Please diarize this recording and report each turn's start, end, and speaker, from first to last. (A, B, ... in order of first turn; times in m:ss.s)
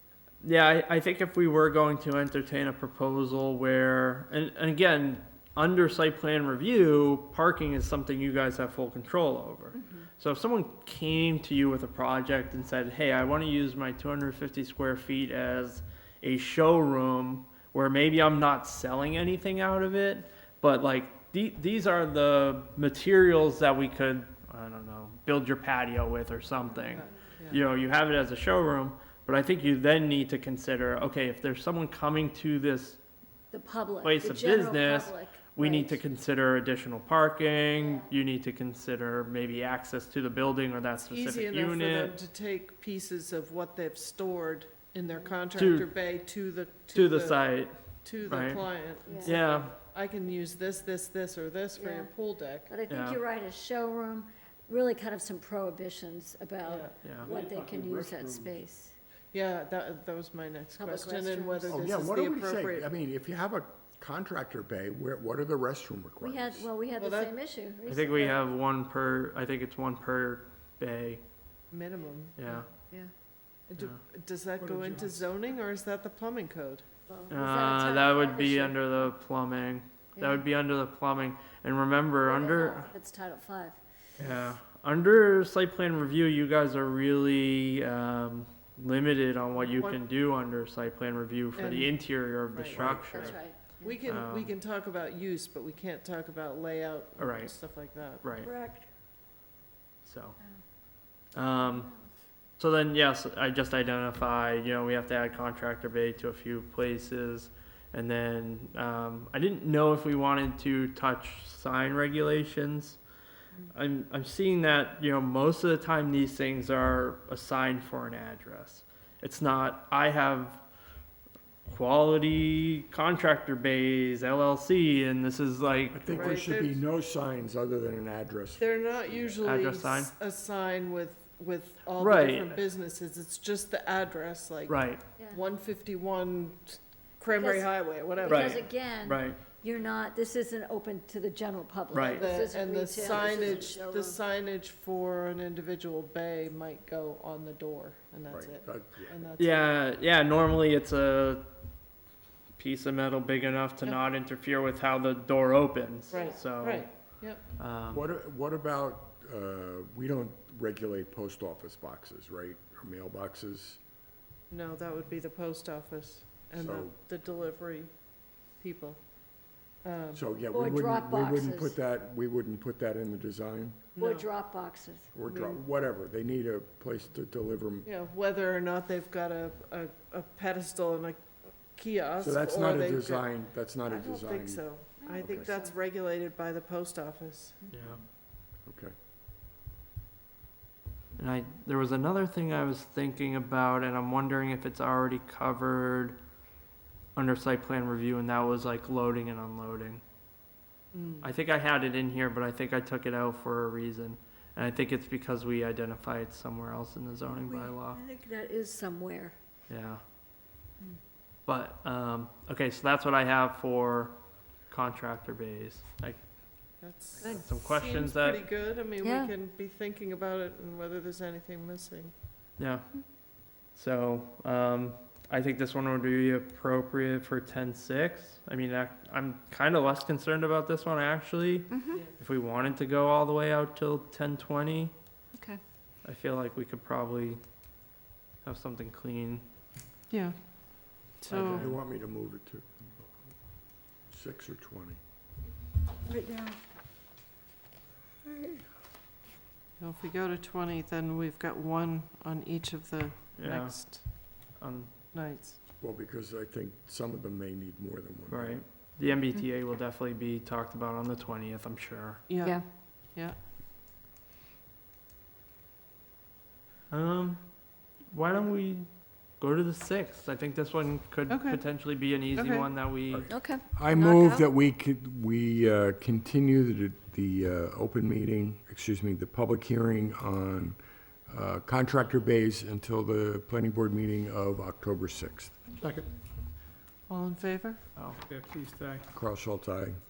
0:00.4-0:33.0 A
0:09.7-0:10.1 B
0:26.9-0:27.6 C
0:33.5-0:36.0 B
0:34.0-0:42.1 A
0:41.1-0:52.7 C
0:45.5-0:45.9 A
0:46.9-0:49.7 A
0:49.0-0:49.4 B
0:51.8-0:52.1 B
0:52.7-0:58.9 B
0:52.9-0:53.2 A
0:56.6-0:57.0 C
0:57.0-0:57.3 A
0:57.0-0:58.7 D
0:59.3-1:02.9 C
1:00.8-1:01.8 B
1:01.7-1:06.7 E
1:06.2-1:08.4 B
1:07.0-1:07.3 C
1:07.9-1:11.2 A
1:11.7-1:12.7 C
1:12.4-1:12.7 A
1:13.7-1:16.9 C
1:14.6-1:15.3 D
1:17.1-1:19.1 B
1:17.3-1:22.9 A
1:22.2-1:23.8 B
1:24.2-1:33.4 A
1:29.6-1:30.0 C
1:31.5-1:32.8 C
1:32.7-1:33.3 E
1:32.9-1:34.0 B
1:33.8-1:38.4 C
1:34.0-1:34.5 A
1:37.2-1:37.5 A
1:38.2-1:38.5 A
1:38.4-1:38.8 B
1:40.0-1:40.4 A
1:41.3-1:41.9 A
1:41.6-1:42.0 B
1:42.6-1:53.0 A
1:53.7-2:00.6 A
2:01.6-2:06.3 A
2:05.9-2:09.4 E
2:06.1-2:06.8 C
2:08.6-2:18.7 C
2:09.4-2:10.1 A
2:12.0-2:12.6 A
2:14.7-2:15.0 A
2:17.3-2:24.2 B
2:18.2-2:19.4 A
2:21.9-2:22.3 A
2:22.1-2:29.8 C
2:23.1-2:23.6 E
2:28.3-2:29.3 E
2:29.4-2:31.5 A
2:32.6-2:36.9 A
2:36.1-2:37.4 C
2:37.6-2:38.1 A
2:37.9-2:43.8 E
2:44.5-2:47.9 C
2:46.6-2:46.9 E
2:48.6-2:49.0 C
2:49.8-2:50.2 C
2:50.1-2:53.9 E
2:50.5-2:51.8 B
2:54.0-2:54.3 C
2:54.0-2:55.1 B
2:55.1-2:57.9 E
2:55.2-2:55.6 C
2:57.8-3:03.3 C
3:02.2-3:04.6 E
3:03.8-3:07.6 C
3:05.0-3:05.7 B
3:05.2-3:05.5 E
3:07.7-3:08.0 A
3:08.6-3:08.9 E
3:11.2-3:16.2 A
3:17.1-3:20.0 A
3:20.9-3:21.3 C
3:21.2-3:28.0 A
3:27.5-3:29.3 B
3:29.7-3:30.0 A
3:31.4-3:34.2 A
3:34.7-3:36.2 A
3:36.8-3:42.1 C
3:37.1-3:38.4 A
3:39.0-3:39.3 B
3:42.6-3:43.0 A
3:43.7-3:54.9 A
3:51.7-3:52.0 B
3:56.0-3:57.4 A
3:58.4-3:59.5 A
4:00.1-4:01.7 C
4:01.3-4:01.8 A
4:01.3-4:03.0 E
4:04.1-4:05.0 E
4:06.1-4:06.5 B
4:09.8-4:14.0 C
4:13.4-4:14.9 A
4:15.1-4:15.6 C
4:15.8-4:18.6 E
4:18.3-4:22.3 A
4:22.3-4:23.4 C
4:26.9-4:27.5 A
4:28.0-4:33.3 A
4:31.3-4:31.6 C
4:32.3-4:32.7 C
4:33.1-4:40.8 E
4:33.3-4:34.4 B
4:41.3-4:45.6 E
4:45.8-4:46.1 D
4:47.1-4:47.8 C
4:48.2-4:49.0 D
4:49.1-4:50.0 E